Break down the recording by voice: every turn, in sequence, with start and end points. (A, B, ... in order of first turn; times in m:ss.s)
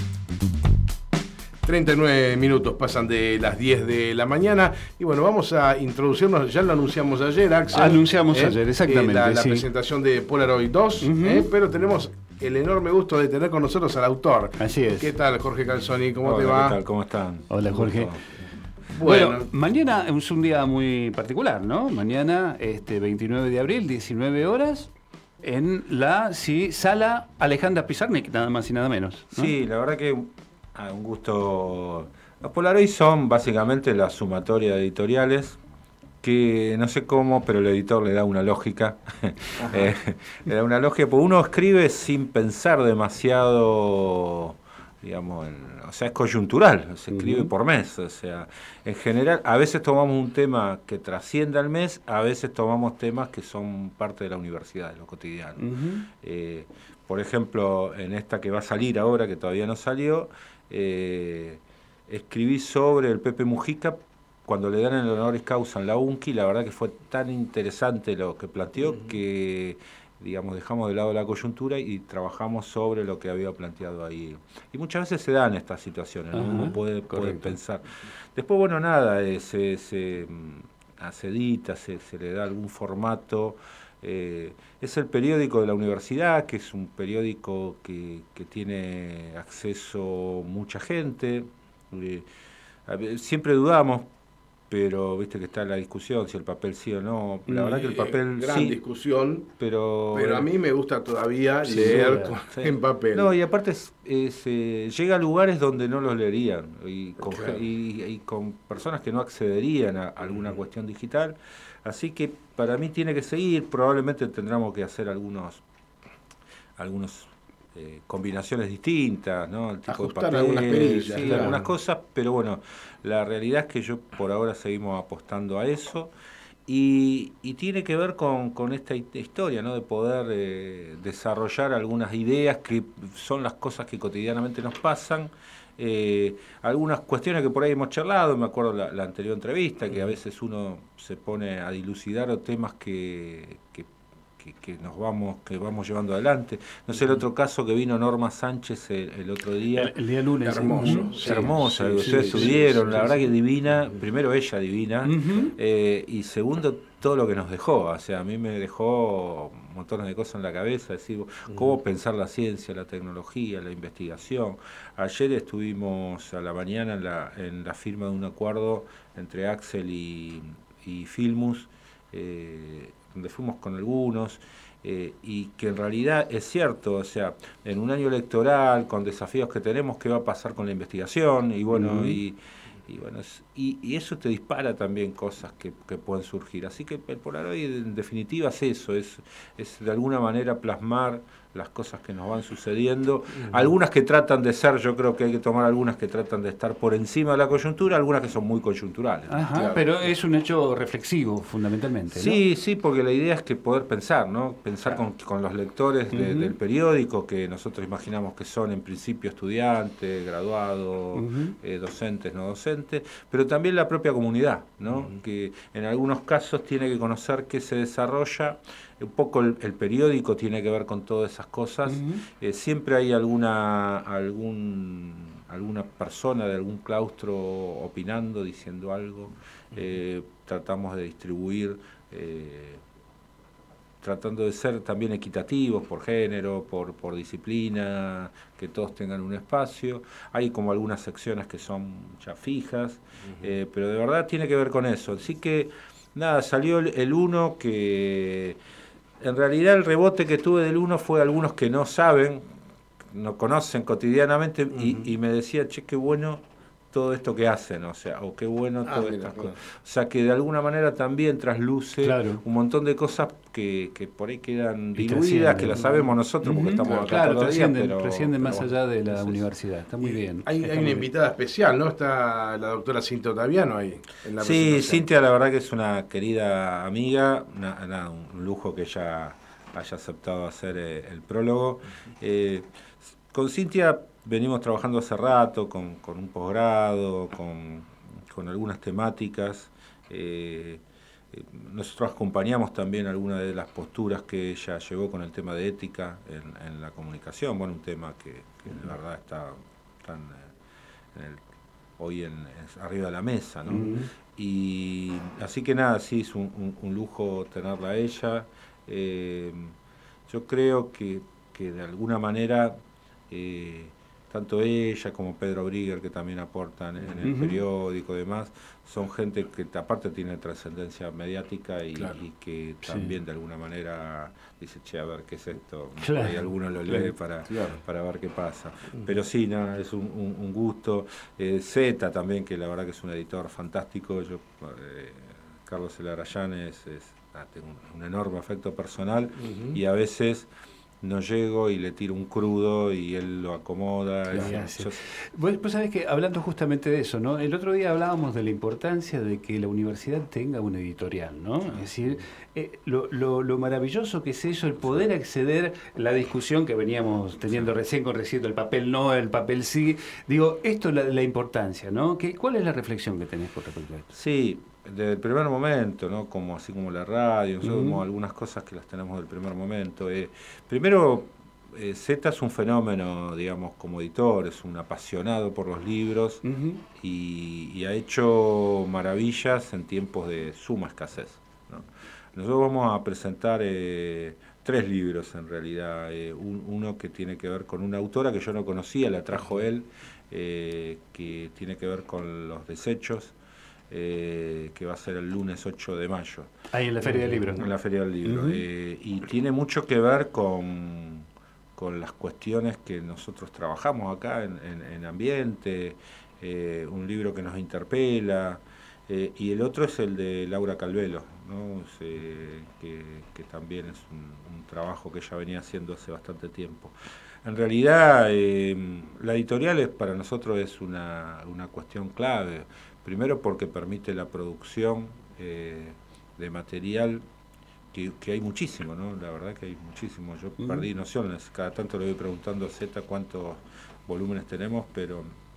0:01.6-0:16.8 A
0:07.7-0:09.7 B
0:11.0-0:11.5 B
0:14.6-0:15.2 B
0:16.2-0:18.3 C
0:17.5-0:18.1 B
0:18.9-0:19.5 A
0:19.0-0:24.9 B
0:25.4-0:29.6 B
0:29.3-0:35.6 C
0:36.2-0:55.6 C
0:39.6-0:39.9 A
0:47.1-0:47.5 B
0:55.6-0:56.1 B
0:56.2-1:32.3 C
1:16.3-1:17.6 B
1:32.8-1:34.1 C
1:34.7-1:38.8 C
1:37.4-1:37.9 B
1:37.8-1:39.5 A
1:39.6-1:40.5 C
1:40.1-1:43.3 A
1:41.6-1:42.4 B
1:41.8-1:55.6 C
1:47.3-1:47.6 A
1:56.8-2:06.1 C
1:59.9-2:01.7 A
2:01.2-2:01.6 B
2:06.7-2:29.9 C
2:29.7-2:32.5 B
2:30.4-2:33.3 A
2:30.7-3:19.5 C
2:35.0-2:35.5 B
3:01.7-3:02.2 B
3:19.3-3:22.4 B
3:19.5-3:19.9 A
3:22.1-3:52.8 C
3:26.1-3:26.6 B
3:31.1-3:31.6 B
3:41.8-3:42.2 B
3:54.0-4:08.6 C
4:09.2-4:12.5 C
4:13.1-4:29.4 C
4:14.7-4:15.1 A
4:18.8-4:19.6 A
4:22.0-4:22.4 B
4:25.0-4:31.1 B
4:26.8-4:27.2 A
4:30.0-4:35.1 A
4:34.4-5:00.5 C
5:01.1-5:01.4 C
5:02.0-5:09.7 C
5:03.7-5:04.0 B
5:10.3-5:12.8 C
5:13.3-5:40.5 C
5:17.2-5:17.6 B
5:22.8-5:23.2 B
5:26.0-5:26.4 B
5:26.9-5:27.8 A
5:39.4-5:39.8 A
5:41.0-5:45.0 C
5:44.3-6:04.1 B
5:51.6-5:51.9 C
5:54.8-5:55.1 C
5:57.5-5:57.7 C
6:04.1-6:16.4 C
6:07.6-6:08.0 B
6:16.4-6:16.8 B
6:17.0-6:33.3 C
6:33.9-6:36.5 C
6:36.7-6:37.7 B
6:37.1-7:07.2 C
6:38.2-6:38.6 B
7:07.9-7:15.3 C
7:10.6-7:10.9 B